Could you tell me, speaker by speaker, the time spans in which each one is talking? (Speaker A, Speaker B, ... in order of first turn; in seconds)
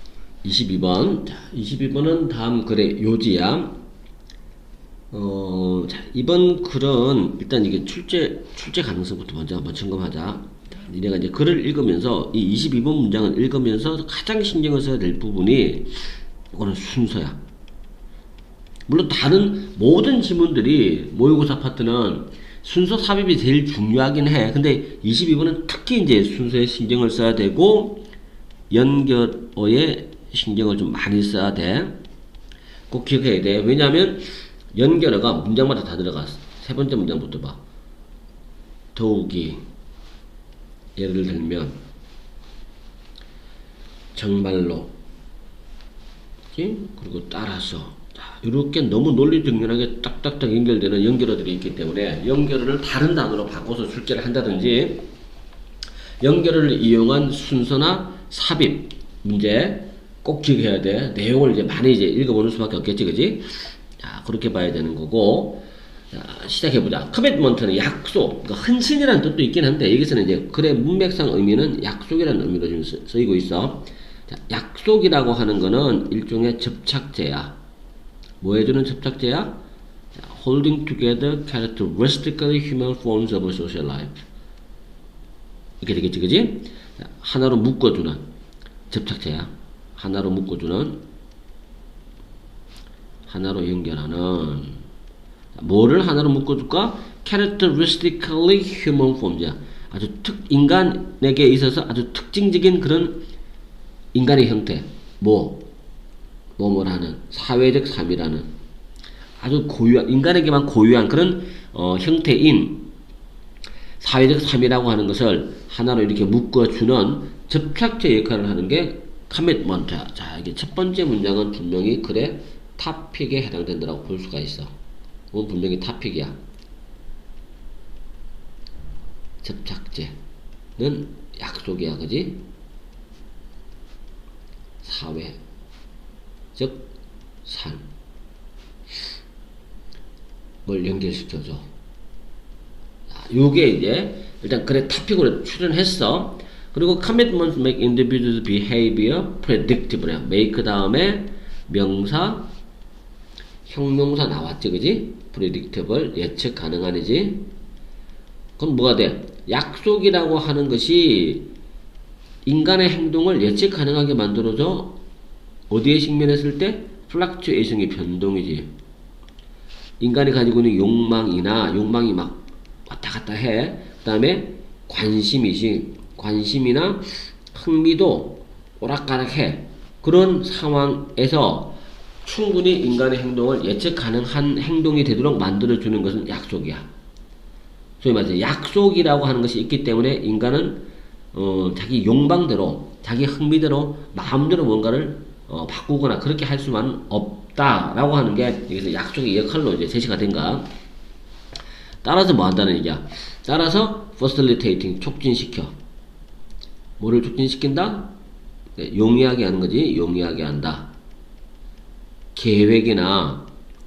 Speaker A: 0.4-3.8, 5.1-15.9, 16.5-17.4, 18.9-28.1, 28.7-32.0, 32.9-37.6, 39.0-39.6, 41.0-41.8, 44.1-44.9, 46.5-55.1, 56.2-77.6, 78.4-79.6, 80.2-84.2, 85.8-88.2, 88.9-91.0, 93.3-94.8, 95.5-103.2, 104.1-105.7, 106.6-108.5, 109.4-112.9, 114.0-124.8, 125.3-126.4, 129.4-130.2, 130.8-132.4, 134.8-135.4, 136.6-136.9, 137.4-137.9, 140.7-141.7, 143.1-152.5, 153.7-157.5, 158.6-161.5, 162.4-165.0, 165.7-168.7, 170.0-186.9, 188.0-200.7, 202.0-205.8, 207.0-208.1, 208.8-210.9, 212.3-213.5